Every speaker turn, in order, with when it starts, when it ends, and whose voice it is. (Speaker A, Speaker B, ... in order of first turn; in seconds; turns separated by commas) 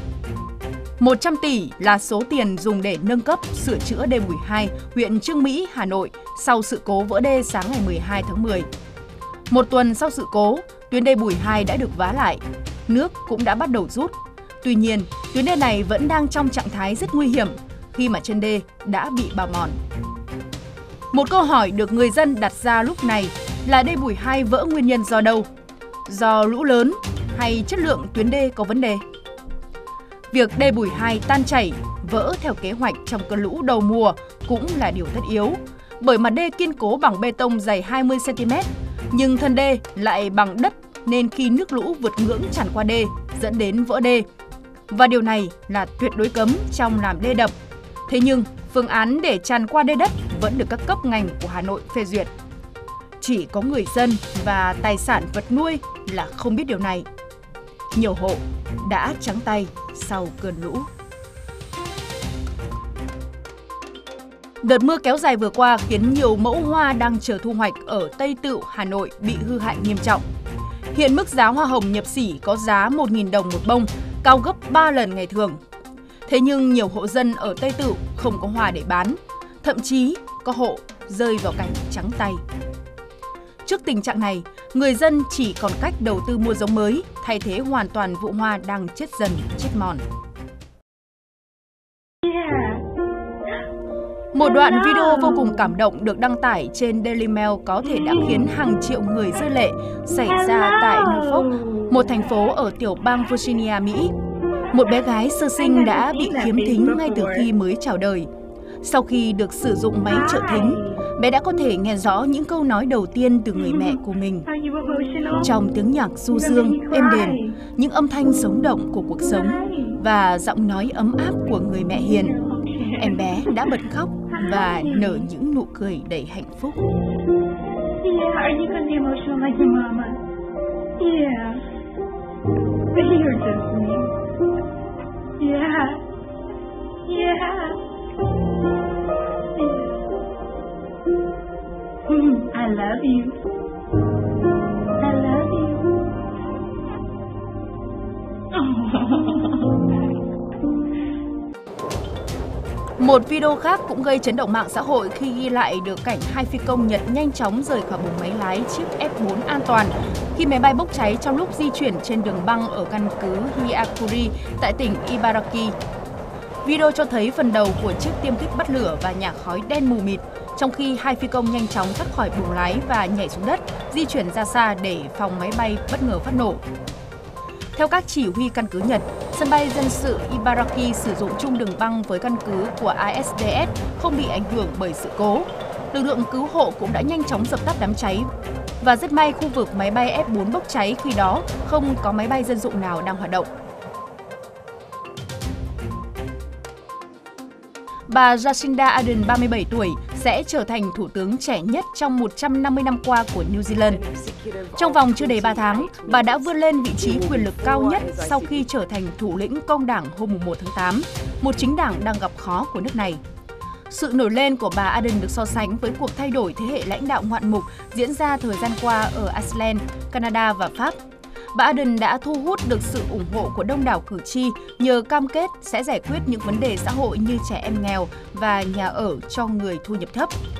Speaker A: 1.0-8.7, Speaker A: 9.5-19.8, Speaker A: 21.1-25.5, Speaker A: 26.1-29.0, Speaker A: 30.3-44.2, Speaker A: 44.9-47.5, Speaker A: 48.1-52.3, Speaker A: 53.2-57.0, Speaker A: 57.9-60.9, Speaker A: 64.6-70.2, Speaker A: 70.9-75.6, Speaker A: 76.3-82.4, Speaker A: 83.6-90.0, Speaker B: 92.2-92.9, Speaker A: 94.3-104.1, Speaker B: 94.8-95.6, Speaker B: 98.0-98.3, Speaker B: 100.2-101.9, Speaker A: 104.7-108.3, Speaker B: 105.6-107.4, Speaker A: 108.8-114.5, Speaker B: 110.1-111.0, Speaker B: 114.5-115.5, Speaker A: 115.4-122.4, Speaker B: 116.3-117.6, Speaker B: 119.3-120.0, Speaker B: 122.4-123.1, Speaker A: 123.0-126.8, Speaker B: 124.3-125.2, Speaker B: 128.0-130.2, Speaker B: 130.9-131.7, Speaker B: 132.9-134.2, Speaker B: 135.4-136.1, Speaker B: 137.0-137.8, Speaker B: 139.4-140.1, Speaker B: 142.1-143.4, Speaker B: 145.0-145.9, Speaker B: 148.5-149.9, Speaker A: 153.0-165.7, Speaker A: 166.6-176.6, Speaker A: 177.7-188.3, Speaker A: 188.8-193.5, Speaker A: 198.1-204.1, Speaker A: 204.7-213.2, Speaker A: 213.9-221.0, Speaker A: 221.5-230.3